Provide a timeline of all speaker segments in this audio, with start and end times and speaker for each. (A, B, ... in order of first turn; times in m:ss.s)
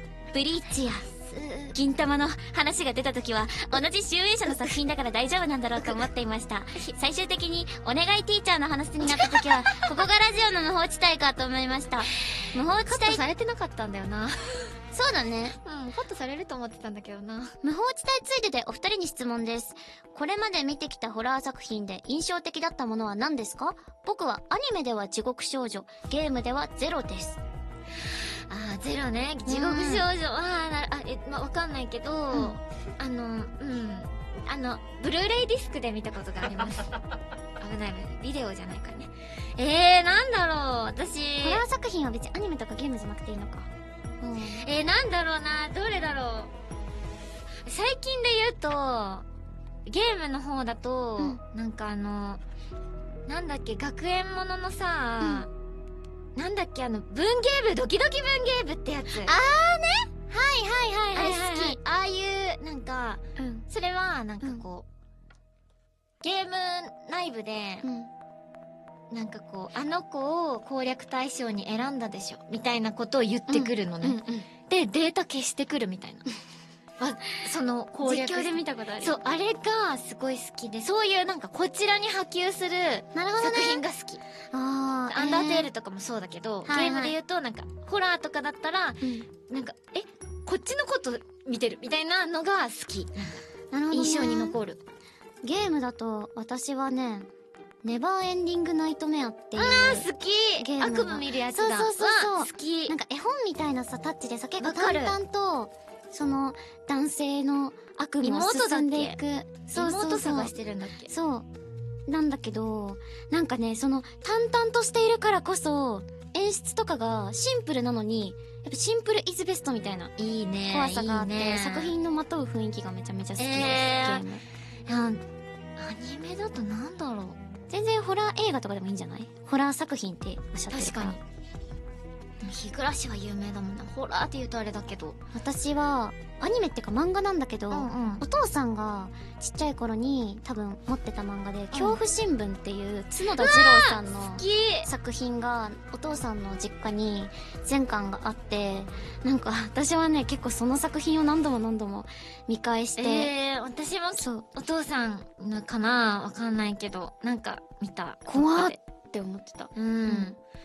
0:00.3-0:01.1 A
0:01.1-0:01.8 B
0:01.7-0:13.2 A
0:09.1-0:09.9 B
0:12.8-0:14.4 B
0:14.9-0:15.6 A
0:15.6-0:17.6 B
0:17.6-0:27.4 A
0:28.5-0:36.9 B
0:29.4-0:30.1 A
0:32.3-0:32.6 A
0:37.6-0:41.6 B
0:41.4-0:43.7 A
0:44.2-0:44.6 A
0:44.5-0:46.5 B
0:47.6-0:49.2 B
0:49.8-0:52.4 B
0:53.3-0:55.5 B
0:55.2-0:55.4 A
0:56.3-0:59.3 B
0:59.1-1:00.1 A
1:00.3-1:04.9 B
1:01.1-1:01.8 A
1:03.4-1:03.6 A
1:06.2-1:07.8 B
1:07.8-1:08.1 A
1:09.1-1:16.2 B
1:13.5-1:14.5 A
1:17.0-1:24.2 B
1:18.0-1:19.2 A
1:23.1-1:23.8 A
1:24.5-1:25.7 A
1:25.1-1:34.8 B
1:26.6-1:27.1 A
1:29.0-1:29.3 A
1:33.7-1:34.6 A
1:35.4-1:37.3 A
1:37.8-1:40.0 A
1:39.5-1:43.0 B
1:40.6-1:50.5 A
1:44.6-1:45.2 B
1:48.2-1:49.2 B
1:49.7-1:51.1 B
1:51.1-1:51.5 A
1:52.1-2:00.1 A
2:00.2-2:01.9 B
2:00.7-2:04.4 A
2:03.4-2:04.2 B
2:04.9-2:05.2 B
2:05.8-2:07.4 B
2:07.7-2:11.2 A
2:10.7-2:11.2 B
2:12.4-2:15.2 B
2:15.3-2:33.3 A
2:17.7-2:18.2 B
2:21.7-2:22.0 B
2:23.4-2:24.9 B
2:33.0-2:38.8 B
2:34.2-2:34.5 A
2:38.3-2:40.3 A
2:39.7-2:40.4 B